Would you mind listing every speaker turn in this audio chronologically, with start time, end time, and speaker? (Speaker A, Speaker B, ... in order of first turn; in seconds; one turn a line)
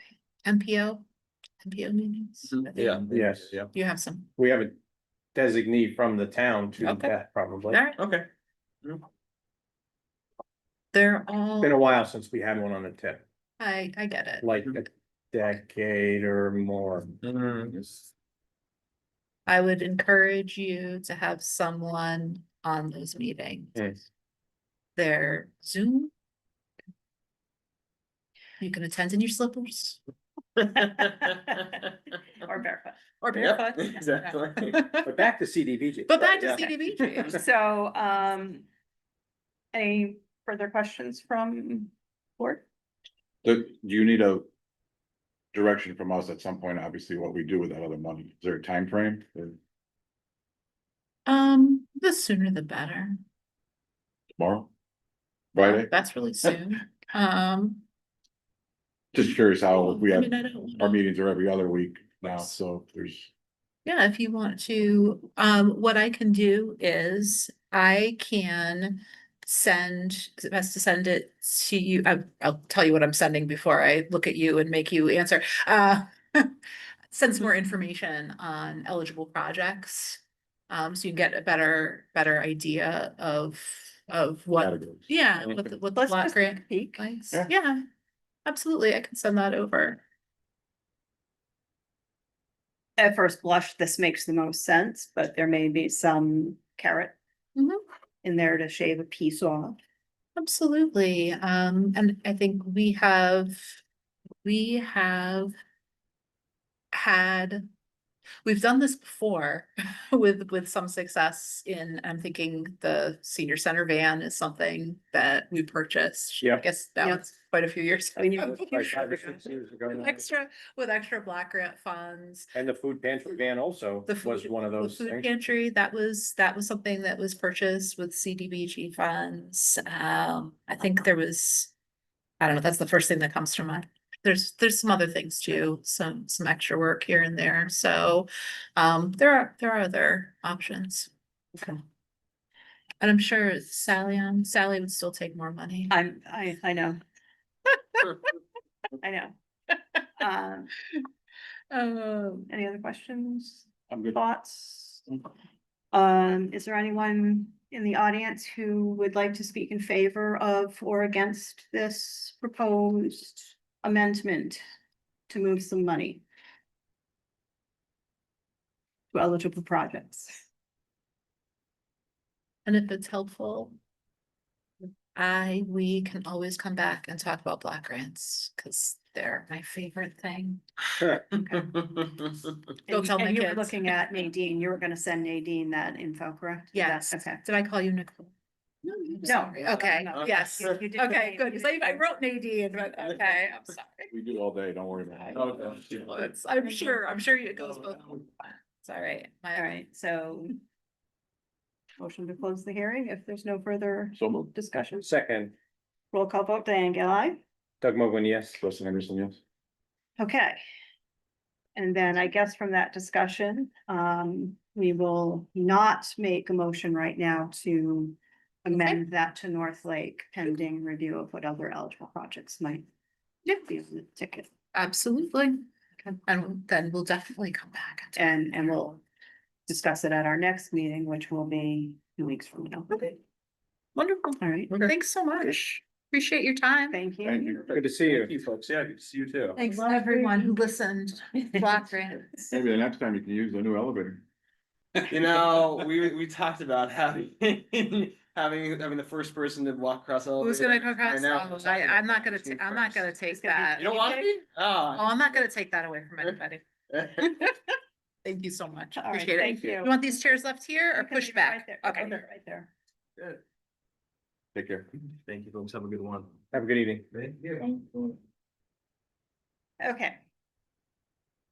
Speaker A: 0.4-1.1
Speaker A: 1.6-3.1
Speaker B: 2.5-3.7
Speaker C: 3.1-3.5
Speaker A: 3.7-4.3
Speaker C: 4.4-4.8
Speaker C: 5.3-7.8
Speaker A: 6.8-7.1
Speaker A: 7.7-8.0
Speaker B: 8.0-8.3
Speaker A: 10.9-11.8
Speaker C: 11.6-13.2
Speaker A: 13.6-14.5
Speaker C: 14.4-17.2
Speaker B: 17.2-17.9
Speaker A: 19.5-24.0
Speaker A: 25.0-26.1
Speaker A: 28.6-30.0
Speaker B: 30.6-31.9
Speaker D: 32.4-34.1
Speaker A: 33.2-35.1
Speaker B: 33.3-34.9
Speaker C: 35.0-36.7
Speaker A: 36.1-37.4
Speaker D: 37.2-38.6
Speaker D: 39.7-42.6
Speaker E: 43.4-44.5
Speaker E: 45.5-49.6
Speaker A: 51.3-53.2
Speaker E: 54.4-54.7
Speaker E: 55.5-55.9
Speaker A: 55.6-57.8
Speaker E: 59.1-63.3
Speaker A: 59.7-61.0
Speaker A: 63.9-76.5
Speaker A: 77.1-87.8
Speaker E: 84.6-85.0
Speaker D: 86.0-87.1
Speaker A: 88.5-90.0
Speaker D: 93.0-97.2
Speaker A: 97.6-97.8
Speaker D: 98.2-99.8
Speaker A: 100.4-103.8
Speaker A: 104.4-105.5
Speaker A: 106.9-107.7
Speaker A: 108.5-119.3
Speaker D: 118.2-119.5
Speaker C: 118.6-120.2
Speaker A: 119.9-122.5
Speaker C: 122.5-125.3
Speaker A: 124.1-131.7
Speaker A: 132.4-141.8
Speaker A: 143.0-145.9
Speaker D: 145.9-147.0
Speaker D: 149.0-149.3
Speaker D: 150.2-150.7
Speaker A: 151.7-152.5
Speaker D: 152.5-155.1
Speaker E: 153.9-154.2
Speaker D: 155.9-164.6
Speaker D: 165.3-166.2
Speaker D: 169.1-170.4
Speaker A: 172.7-173.7
Speaker A: 175.2-180.6
Speaker D: 181.3-181.7
Speaker B: 182.0-182.3
Speaker D: 182.9-187.4
Speaker A: 182.9-183.9
Speaker A: 186.7-188.3
Speaker A: 188.8-194.1
Speaker D: 189.2-192.2
Speaker E: 194.1-195.8
Speaker A: 195.2-199.7
Speaker B: 195.3-195.9
Speaker D: 199.6-200.5
Speaker D: 202.0-205.1
Speaker E: 204.2-204.5
Speaker C: 205.0-205.5
Speaker D: 206.1-207.4
Speaker C: 207.8-208.6
Speaker E: 208.6-209.4
Speaker D: 210.2-210.6
Speaker D: 211.8-222.8
Speaker A: 218.7-219.0
Speaker D: 223.5-224.5
Speaker A: 224.7-225.6
Speaker A: 226.2-228.9
Speaker D: 228.2-229.0
Speaker D: 229.7-233.2
Speaker A: 234.0-237.0
Speaker D: 234.4-234.8
Speaker D: 236.9-237.6
Speaker E: 237.2-237.6
Speaker C: 237.7-238.4
Speaker B: 237.7-239.6
Speaker D: 239.6-240.4
Speaker A: 239.6-242.5
Speaker E: 242.5-244.2
Speaker B: 245.0-253.1
Speaker A: 250.4-254.3
Speaker D: 253.3-254.3
Speaker B: 253.8-255.1
Speaker A: 254.9-256.6
Speaker B: 256.9-257.5
Speaker A: 258.2-262.2
Speaker D: 259.0-259.9
Speaker D: 260.9-262.7
Speaker B: 261.9-262.2
Speaker E: 264.6-264.9
Speaker B: 265.3-266.3
Speaker C: 266.5-267.1
Speaker B: 267.1-268.1
Speaker D: 269.8-270.2